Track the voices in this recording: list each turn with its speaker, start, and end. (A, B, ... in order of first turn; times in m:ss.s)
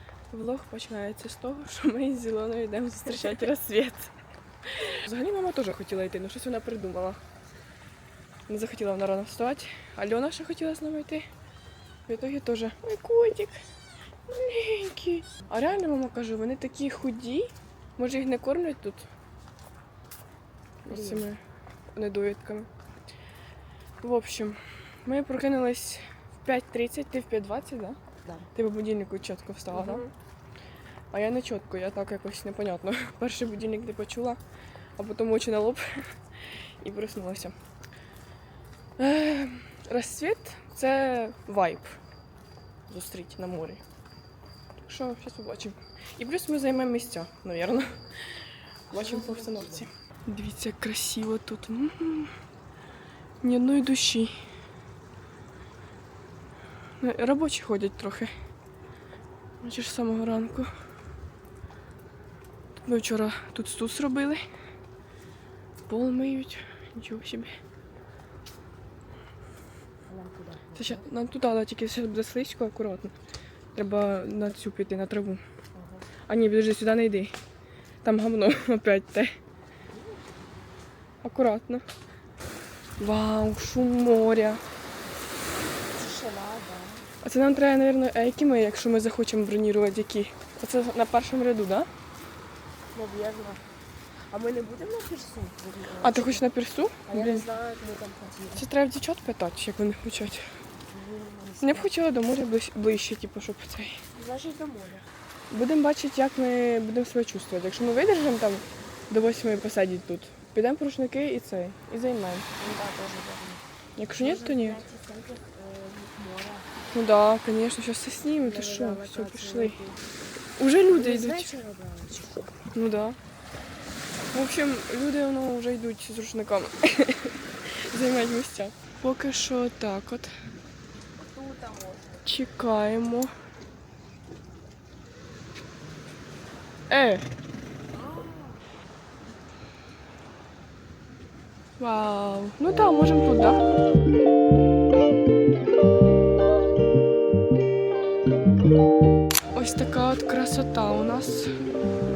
0:00.3-0:04.1 A
0:04.8-0:07.2 A
0:08.5-0:11.2 A
0:12.1-0:13.6 A
0:14.3-0:19.0 A
0:20.8-0:21.4 A
0:20.9-0:21.2 B
0:21.9-0:22.7 A
0:24.0-0:28.0 A
0:28.5-0:30.0 A
0:29.7-0:30.0 B
0:31.1-0:34.4 A
0:35.0-0:36.2 A
0:36.8-0:37.5 A
0:39.0-0:42.0 A
0:42.9-0:43.8 A
0:44.8-0:48.0 A
0:48.9-0:52.3 A
0:48.9-0:49.8 B
0:53.4-0:54.3 A
0:57.0-0:58.3 A
0:59.6-1:00.7 A
1:02.8-1:04.4 A
1:05.9-1:07.6 A
1:10.2-1:11.0 B
1:10.7-1:13.1 A
1:13.7-1:15.4 A
1:16.2-1:17.3 A
1:18.0-1:19.4 A
1:21.2-1:21.8 A
1:23.0-1:24.6 A
1:25.9-1:27.0 B
1:27.2-1:31.9 A
1:32.9-1:33.6 B
1:34.3-1:36.4 B
1:36.0-1:37.4 A
1:37.1-1:38.6 B
1:38.5-1:40.4 A
1:40.9-1:41.9 B
1:41.6-1:44.0 A
1:44.2-1:45.0 B
1:45.5-1:52.4 A
1:52.6-1:53.6 B
1:54.0-1:54.8 A
1:54.1-1:56.6 B
1:56.9-1:59.8 A
1:58.4-2:00.0 B
2:00.6-2:01.5 A
2:00.9-2:02.4 B
2:02.7-2:03.2 A
2:04.3-2:10.3 A
2:11.4-2:12.0 B
2:12.2-2:13.3 A
2:16.9-2:17.2 A
2:21.8-2:23.6 A
2:29.5-2:31.5 A